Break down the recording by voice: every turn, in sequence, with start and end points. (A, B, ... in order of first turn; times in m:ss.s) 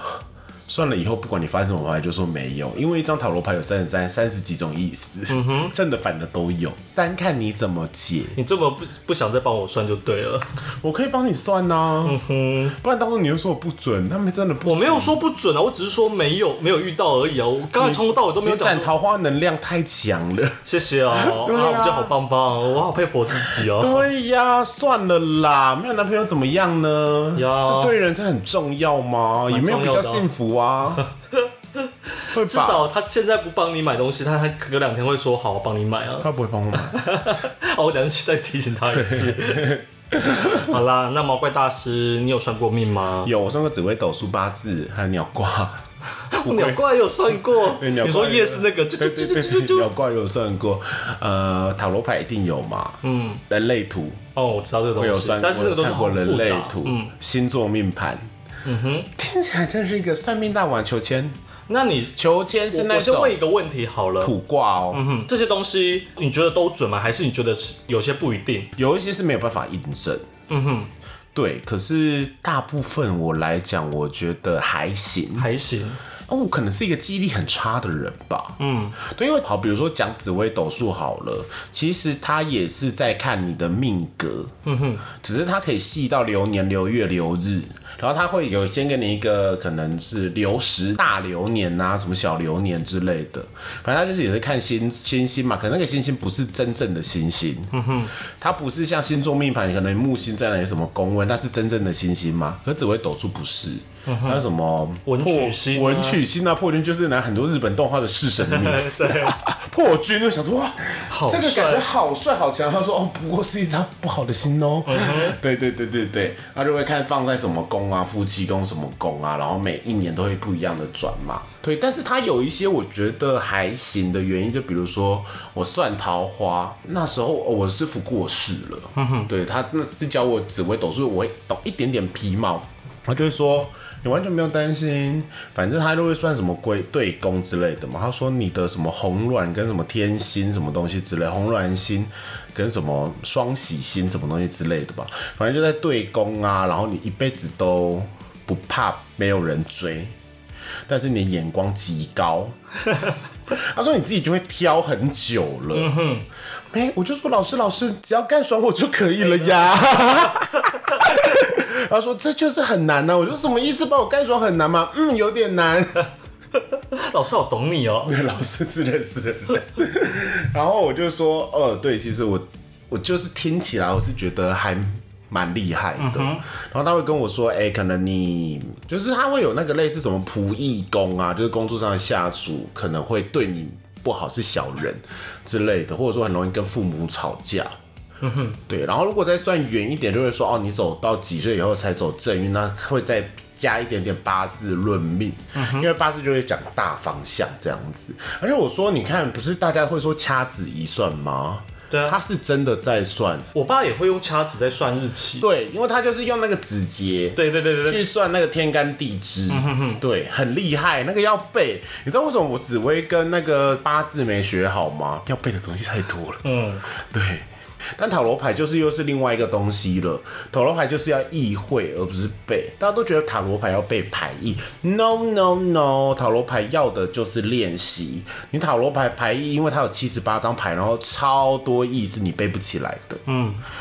0:00.7-0:08.4 A
0:05.3-0:05.7 B
0:08.4-0:10.5 B
0:10.8-0:12.2 A
0:12.0-0:12.8 B
0:12.8-0:15.2 A
0:14.6-0:18.9 B
0:17.7-0:22.1 A
0:20.6-0:24.1 B
0:23.4-0:31.0 A
0:27.4-0:27.9 B
0:29.5-0:30.3 B
0:31.3-0:39.8 B
0:32.3-0:32.8 A
0:36.2-0:37.0 A
0:38.9-0:40.8 A
0:40.4-0:43.3 B
0:43.2-0:45.8 A
0:46.3-0:49.9 B
0:46.4-0:54.2 A
0:53.0-0:53.4 B
0:54.4-0:57.1 B
0:55.0-0:58.3 A
0:58.6-0:59.1 B
0:59.1-1:01.4 A
1:01.7-1:02.2 B
1:02.1-1:03.4 A
1:02.7-1:04.3 B
1:04.2-1:05.0 A
1:04.9-1:08.7 B
1:08.8-1:10.3 A
1:10.5-1:10.9 B
1:11.3-1:15.5 A
1:15.4-1:16.0 B
1:16.3-1:24.5 A
1:18.6-1:19.0 B
1:24.6-1:25.0 B
1:25.1-2:30.1 A
1:37.7-1:38.1 B
1:44.0-1:44.5 B
1:45.0-1:46.2 B
1:48.4-1:49.4 B
1:51.1-1:51.9 B
1:54.8-1:55.4 B
2:09.0-2:09.3 B
2:30.9-2:32.5 A
2:33.5-2:35.9 A
2:35.7-2:36.2 B
2:36.7-2:46.0 A
2:39.2-2:39.7 B
2:40.6-2:41.0 B
2:46.7-2:48.2 B
2:48.0-3:07.7 A
2:56.0-2:56.4 B
3:08.2-3:08.6 B
3:08.7-3:23.5 A
3:15.5-3:15.9 B
3:21.9-3:22.2 B
3:23.5-3:25.5 B
3:25.4-3:53.2 A
3:27.4-3:28.0 B
3:29.5-3:30.0 B
3:36.4-3:36.8 B
3:53.2-3:53.6 B